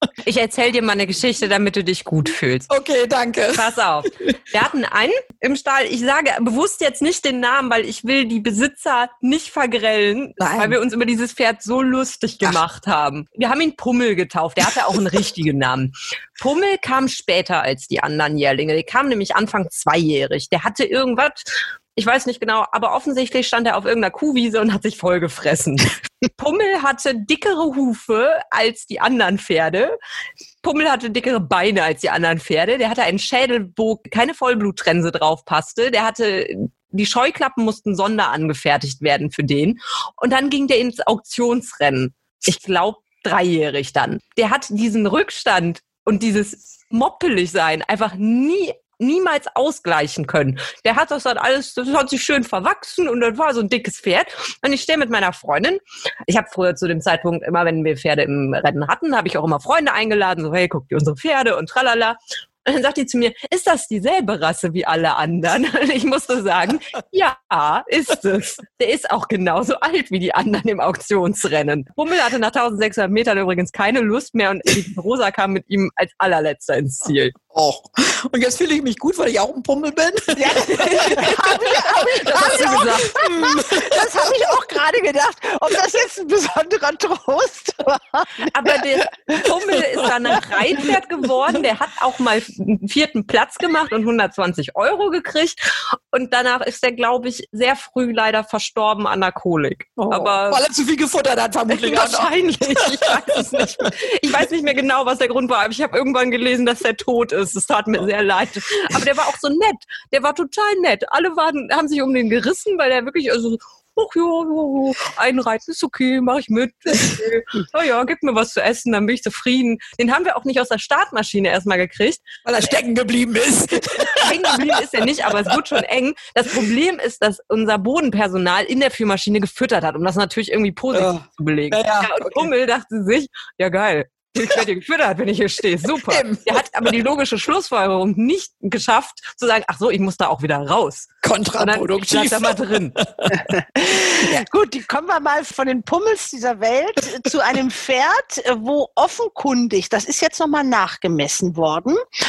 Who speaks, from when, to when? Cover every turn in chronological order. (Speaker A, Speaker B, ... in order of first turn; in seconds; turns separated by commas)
Speaker A: 0.2-2.7, Speaker B: 2.7-3.7, Speaker A: 3.5-30.0, Speaker B: 10.4-10.8, Speaker A: 30.6-77.3, Speaker B: 77.5-84.1, Speaker C: 80.4-82.8, Speaker A: 82.4-83.2, Speaker C: 83.4-88.5, Speaker A: 88.5-95.6, Speaker A: 96.1-100.6, Speaker B: 100.0-102.5, Speaker A: 101.8-122.3, Speaker B: 103.5-103.9, Speaker B: 122.5-124.6, Speaker A: 124.1-143.0, Speaker B: 130.9-132.5, Speaker B: 136.1-136.4, Speaker B: 141.2-142.5, Speaker C: 143.8-152.0